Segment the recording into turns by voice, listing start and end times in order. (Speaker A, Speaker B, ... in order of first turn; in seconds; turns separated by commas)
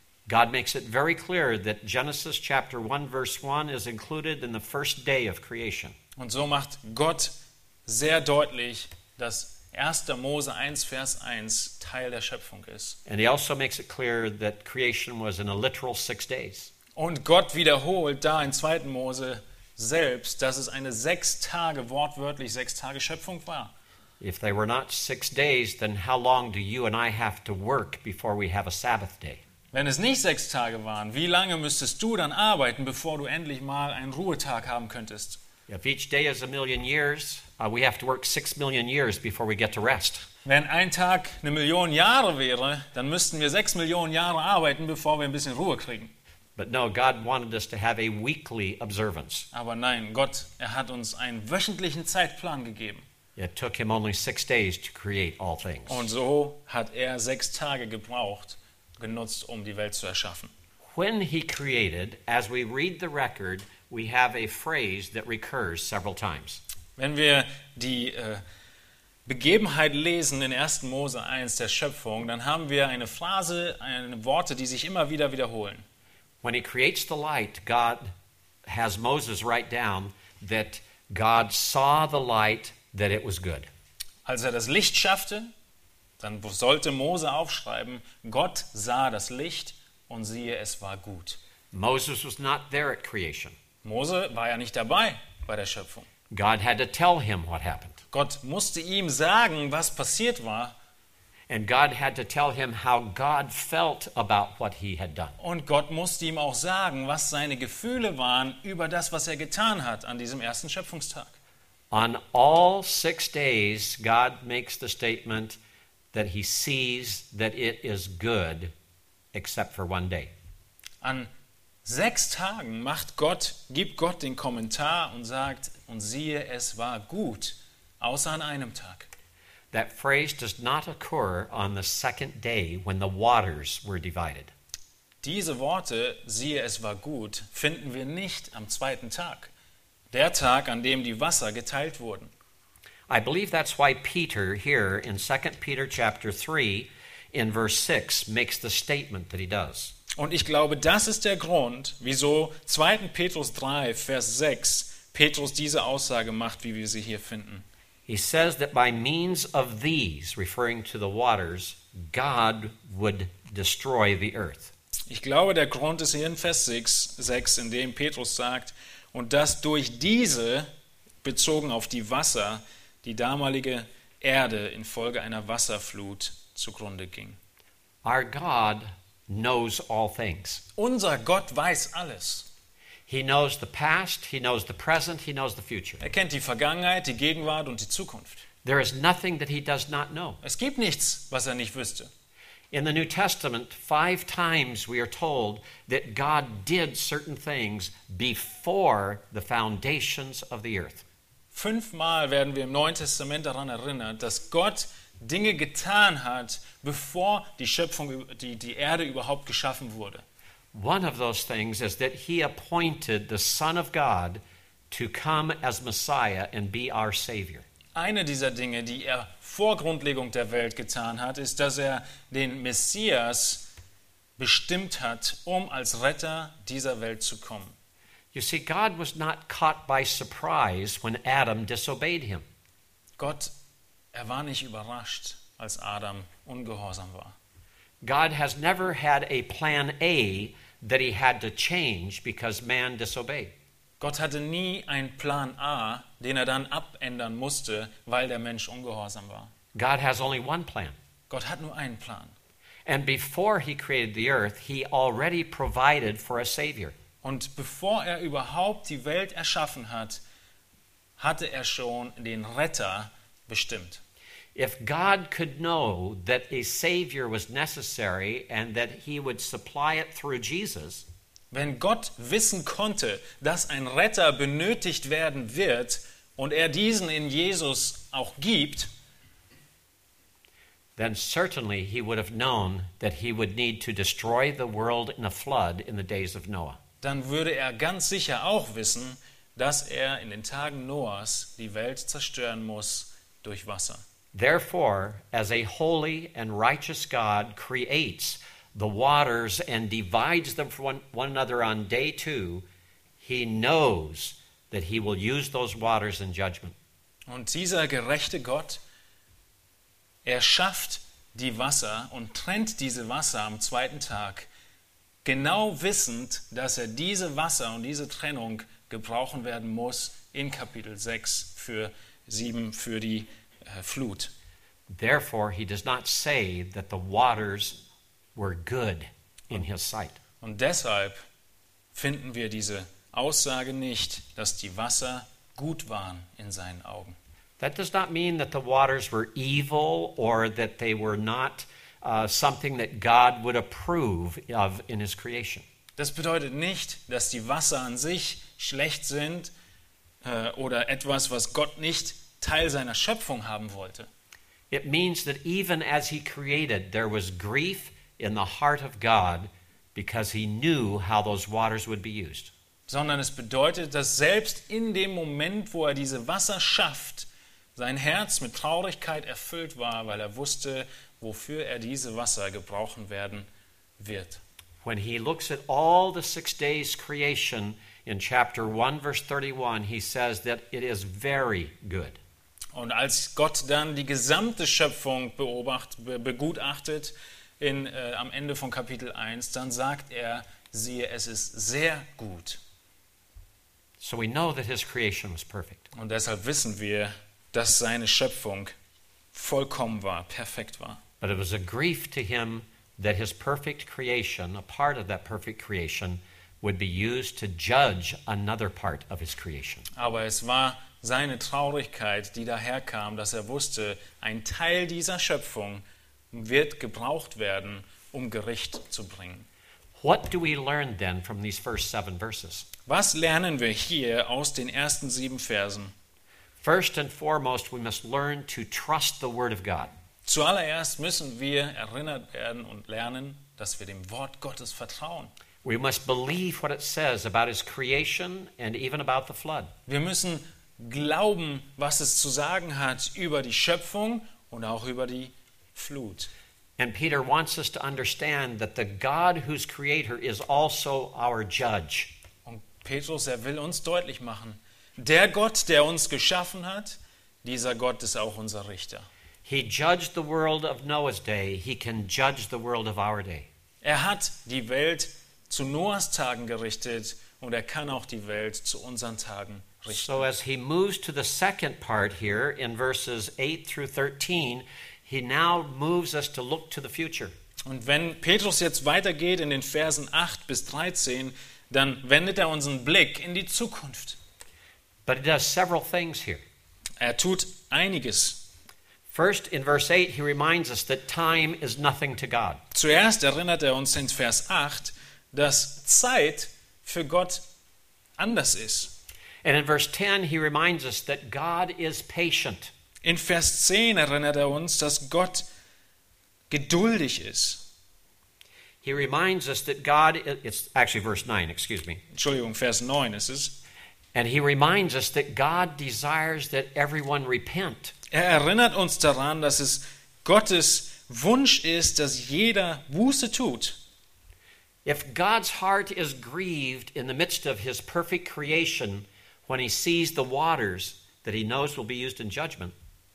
Speaker A: 0.3-5.9, Speaker B: 6.2-7.3, Speaker B: 7.8-13.0, Speaker A: 13.1-16.7, Speaker B: 16.9-23.7, Speaker A: 24.2-29.4, Speaker B: 29.7-35.4, Speaker A: 35.7-40.3, Speaker B: 40.4-46.1, Speaker A: 46.6-49.5, Speaker B: 49.5-53.0, Speaker A: 53.4-56.1, Speaker B: 55.9-60.5, Speaker A: 60.9-66.6, Speaker B: 67.0-68.4, Speaker B: 69.2-75.8, Speaker A: 76.4-78.1, Speaker A: 78.7-83.7, Speaker B: 84.2-85.5, Speaker B: 86.2-91.4, Speaker A: 91.7-93.5, Speaker B: 93.8-96.1, Speaker A: 96.3-98.0, Speaker B: 98.1-100.7, Speaker A: 101.5-105.3, Speaker B: 105.4-111.3, Speaker A: 111.9-115.6, Speaker A: 116.1-118.7, Speaker A: 119.3-120.3, Speaker B: 121.0-121.3, Speaker B: 121.8-129.1, Speaker A: 129.7-134.5, Speaker B: 135.2-139.5, Speaker B: 140.1-142.3, Speaker A: 143.1-149.9, Speaker B: 150.2-157.6, Speaker A: 158.1-164.7, Speaker B: 165.1-170.7, Speaker B: 171.2-177.4, Speaker A: 178.0-180.6, Speaker B: 180.8-182.5, Speaker A: 183.1-186.0, Speaker B: 186.0-188.4, Speaker A: 188.6-190.4, Speaker B: 190.4-192.1, Speaker A: 192.7-201.0, Speaker B: 201.5-210.2, Speaker A: 210.7-217.6, Speaker B: 217.9-223.7, Speaker B: 224.4-227.7, Speaker A: 228.3-232.4, Speaker B: 233.2-233.5, Speaker B: 234.1-237.3, Speaker A: 238.0-243.5, Speaker B: 244.0-249.5, Speaker A: 249.7-250.9, Speaker B: 251.3-252.3, Speaker A: 252.8-256.9, Speaker B: 257.2-260.2, Speaker B: 261.2-264.0, Speaker A: 264.5-271.1, Speaker B: 271.5-278.9, Speaker A: 281.0-286.8, Speaker B: 287.0-294.0, Speaker A: 294.3-302.6, Speaker A: 303.2-306.8, Speaker B: 307.3-308.8, Speaker B: 310.2-314.5, Speaker B: 315.2-324.3, Speaker A: 324.9-327.8, Speaker A: 328.4-330.2, Speaker B: 330.4-331.2, Speaker B: 331.9-337.1, Speaker A: 337.6-345.6, Speaker B: 346.0-349.5, Speaker B: 350.2-354.1, Speaker A: 354.7-362.5, Speaker B: 362.9-373.5, Speaker B: 374.0-374.4, Speaker A: 374.8-382.2, Speaker B: 382.7-392.6, Speaker A: 394.0-395.9, Speaker B: 395.9-398.7, Speaker B: 399.3-401.0, Speaker A: 401.2-409.9, Speaker B: 409.9-419.5, Speaker A: 419.9-422.7, Speaker B: 422.9-425.9, Speaker A: 426.6-429.9, Speaker B: 430.2-435.3, Speaker A: 435.6-439.7, Speaker B: 439.9-446.3, Speaker A: 446.8-452.1, Speaker B: 452.4-459.1, Speaker A: 459.4-463.5, Speaker B: 463.8-470.2, Speaker A: 469.9-477.3, Speaker B: 477.6-484.2, Speaker A: 485.1-486.4, Speaker B: 487.0-488.4, Speaker A: 489.1-492.6, Speaker B: 492.7-497.4, Speaker B: 498.2-498.9, Speaker A: 499.4-502.7, Speaker B: 503.0-505.4, Speaker B: 506.5-507.6, Speaker A: 508.8-512.0, Speaker B: 512.1-513.5, Speaker A: 514.1-517.9, Speaker B: 518.1-523.8, Speaker A: 524.8-532.7